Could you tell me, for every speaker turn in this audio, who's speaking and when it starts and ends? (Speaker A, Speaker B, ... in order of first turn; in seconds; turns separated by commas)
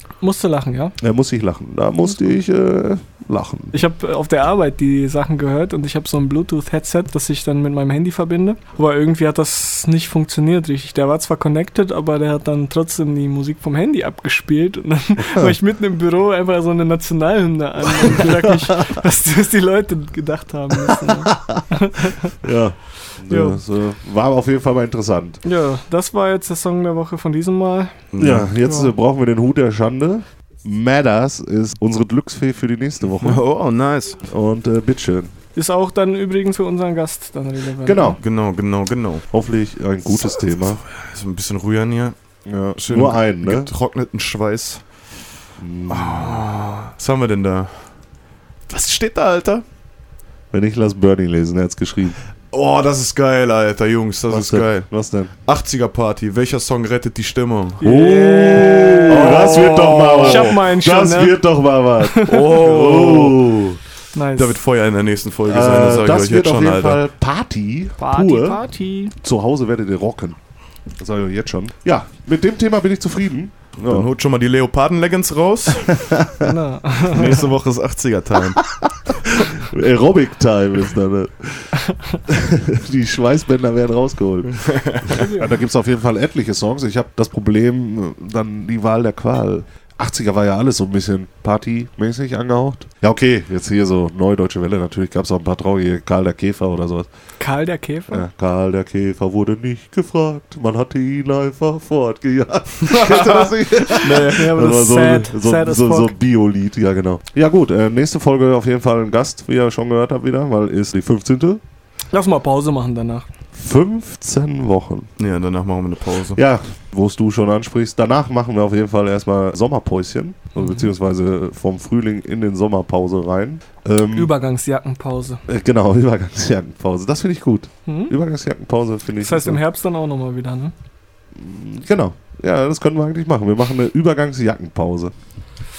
Speaker A: 0.2-1.0, Speaker B: 1.0-3.7, Speaker A: 2.0-2.4, Speaker A: 3.7-22.3, Speaker B: 18.1-18.7, Speaker B: 21.0-21.6, Speaker B: 22.4-25.4, Speaker A: 23.3-23.6, Speaker A: 25.4-28.1, Speaker C: 28.1-28.5, Speaker B: 28.2-33.7, Speaker A: 28.6-28.9, Speaker C: 33.2-34.2, Speaker B: 34.2-35.3, Speaker A: 35.5-38.2, Speaker B: 37.8-38.5, Speaker C: 38.2-39.4, Speaker B: 39.3-40.8, Speaker C: 40.2-45.2, Speaker B: 42.5-43.7, Speaker B: 45.6-46.5, Speaker C: 45.9-49.6, Speaker B: 50.5-52.2, Speaker C: 52.5-60.6, Speaker B: 54.3-55.3, Speaker A: 57.8-59.3, Speaker B: 57.8-63.8, Speaker A: 60.2-61.5, Speaker C: 62.3-63.7, Speaker A: 64.1-64.6, Speaker C: 64.3-67.0, Speaker B: 65.5-74.1, Speaker A: 68.0-69.1, Speaker C: 73.8-76.2, Speaker B: 76.1-76.4, Speaker A: 76.4-77.4, Speaker C: 77.1-79.0, Speaker B: 79.0-97.1, Speaker C: 84.5-85.1, Speaker A: 85.2-85.5, Speaker A: 97.4-98.2, Speaker B: 98.1-111.6, Speaker C: 102.9-103.5, Speaker A: 104.0-106.1, Speaker C: 104.0-104.4, Speaker A: 112.1-113.3, Speaker B: 113.5-115.1, Speaker C: 115.2-116.4, Speaker B: 116.3-124.3, Speaker A: 120.6-120.9, Speaker A: 124.1-125.4, Speaker B: 125.5-129.6, Speaker A: 127.9-128.1, Speaker A: 129.2-130.7, Speaker B: 131.3-135.2